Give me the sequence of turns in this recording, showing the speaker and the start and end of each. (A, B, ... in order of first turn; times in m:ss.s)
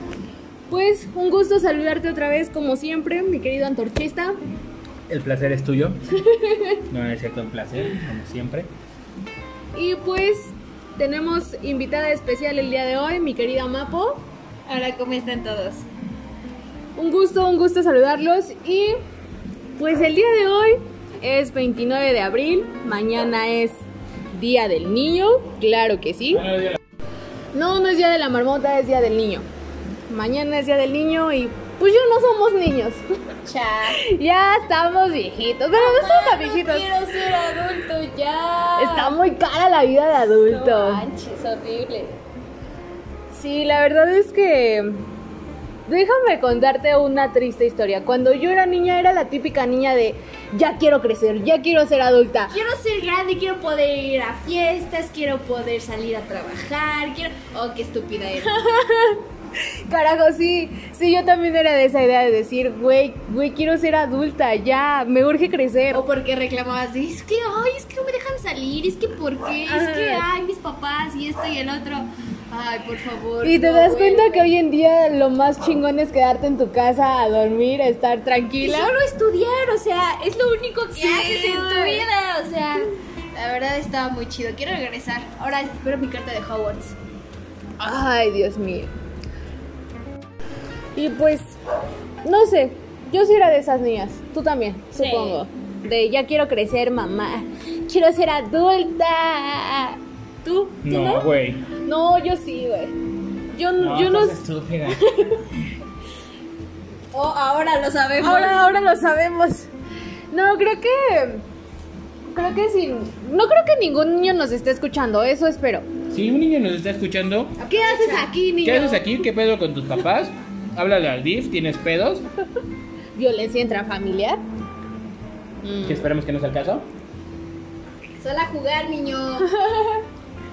0:00.7-0:04.4 A
0:05.1-0:06.2 B
0:06.3-0:06.8 A
0:06.9-0:08.7 B
0:09.7-0:14.2 A
0:14.7-0:15.8 C
0:17.0-0:19.0 A
0:19.8-0:23.8 A
0:24.3-0:26.5 A
0:26.3-0:26.8 B
0:27.5-0:29.4 A
0:30.1-0:33.0 A
0:33.4-0:34.0 C
0:33.9-0:36.9 A
0:35.7-0:39.1 C
0:38.8-0:41.0 A
0:40.4-0:42.1 C
0:43.3-0:45.0 A
0:45.9-0:52.5 A
0:52.5-0:58.5 C
0:58.4-0:59.2 A
0:59.9-1:06.0 A
1:05.9-1:14.5 C
1:09.7-1:10.2 A
1:13.4-1:18.9 A
1:18.6-1:27.0 C
1:20.9-1:22.0 A
1:27.8-1:28.9 A
1:31.0-1:31.6 A
1:32.2-1:41.3 A
1:34.9-1:35.4 C
1:40.8-1:41.7 B
1:41.8-1:42.9 A
1:43.5-1:45.4 A
1:43.8-1:45.1 B
1:47.1-1:48.6 C
1:48.2-1:49.7 A
1:50.3-1:51.4 A
1:52.3-1:55.8 A
1:56.1-1:57.6 B
1:57.6-1:58.3 C
1:57.6-1:59.0 A
1:58.6-2:02.2 B
2:03.1-2:04.4 A
2:05.6-2:06.0 A
2:05.8-2:06.8 B
2:08.2-2:09.5 C
2:09.4-2:10.0 A